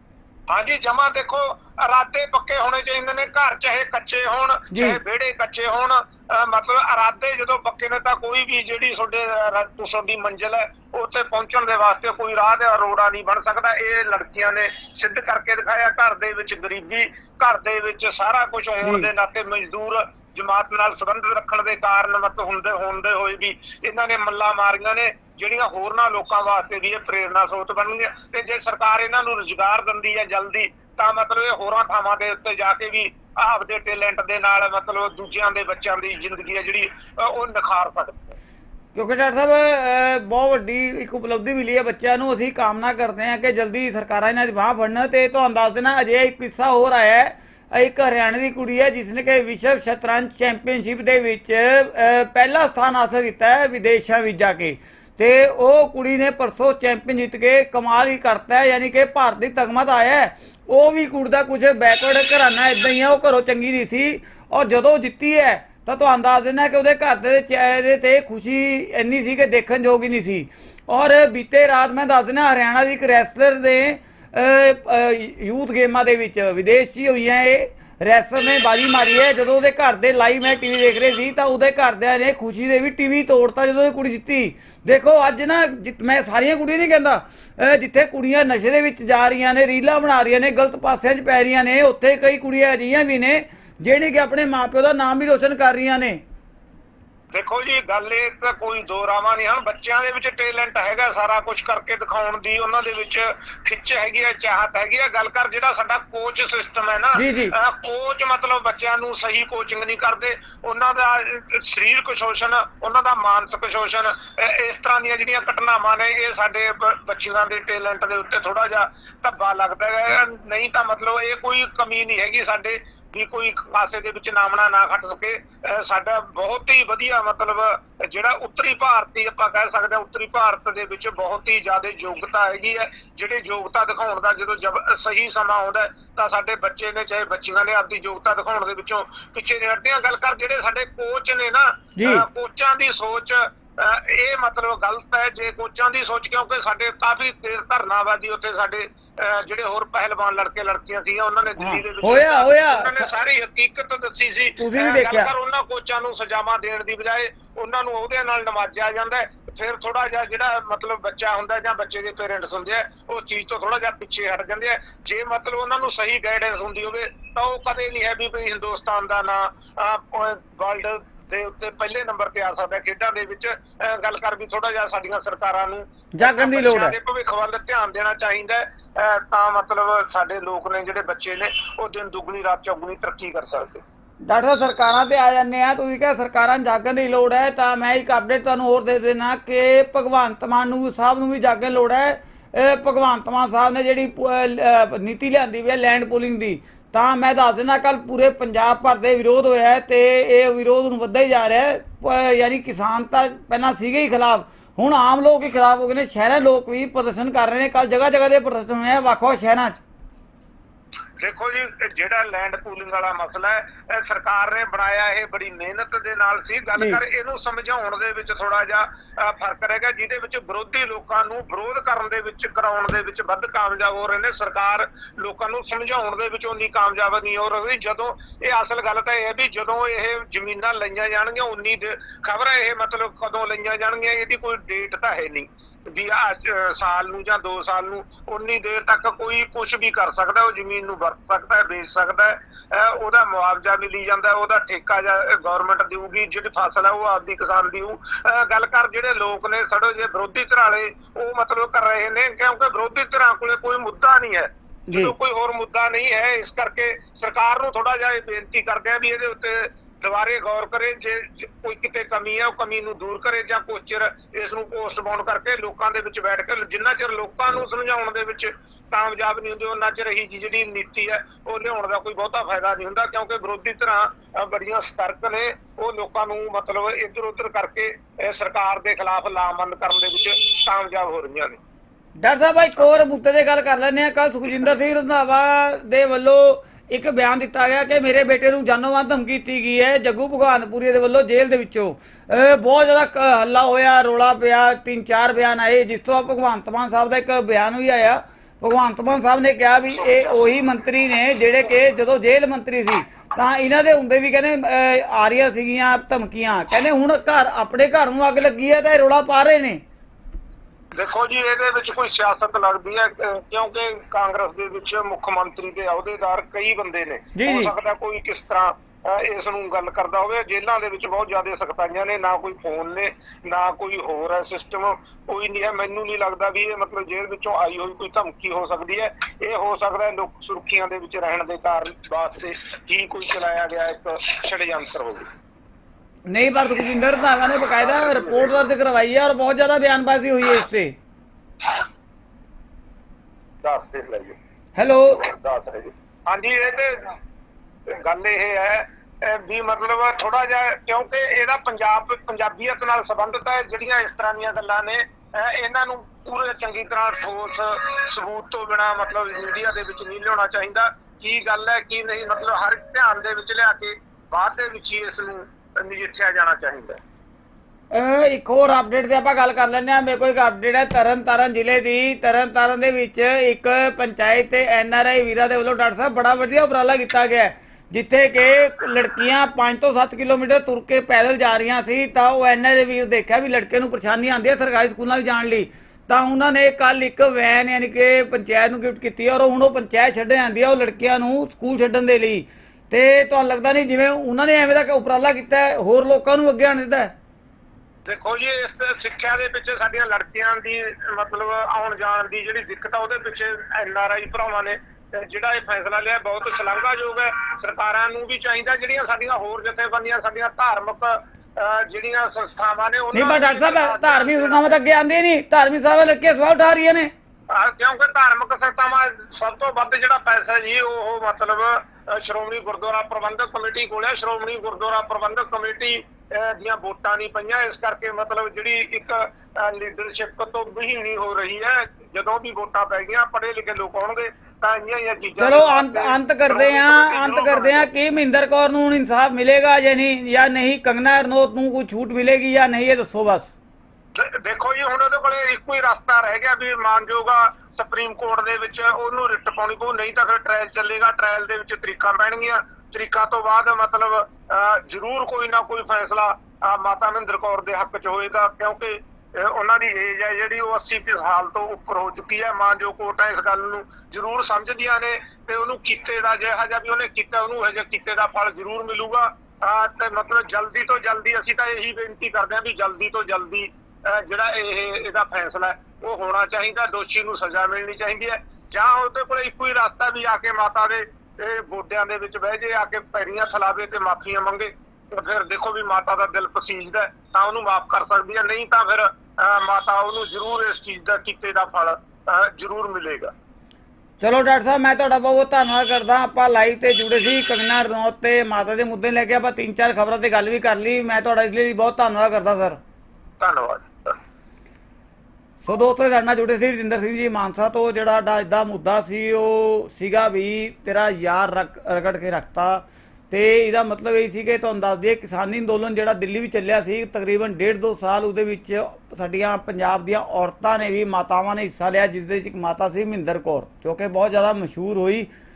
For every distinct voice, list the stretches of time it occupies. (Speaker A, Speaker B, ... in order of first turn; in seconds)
Speaker A: 0.5-38.3, 97.3-183.8, 211.2-281.6, 310.9-335.3, 337.8-338.6, 343.6-344.3, 345.1-347.1, 347.9-367.0, 398.1-414.6, 417.5-437.9, 444.1-493.3, 503.4-504.2
Speaker B: 4.7-5.0, 18.8-19.1, 38.9-96.2, 107.2-107.5, 142.0-142.2, 151.6-153.1, 154.6-155.3, 176.1-176.9, 184.2-209.8, 282.2-309.8, 317.4-317.7, 336.3-340.9, 344.8-345.2, 367.9-397.1, 413.1-417.1, 435.4-443.5, 494.2-502.8, 505.6-525.3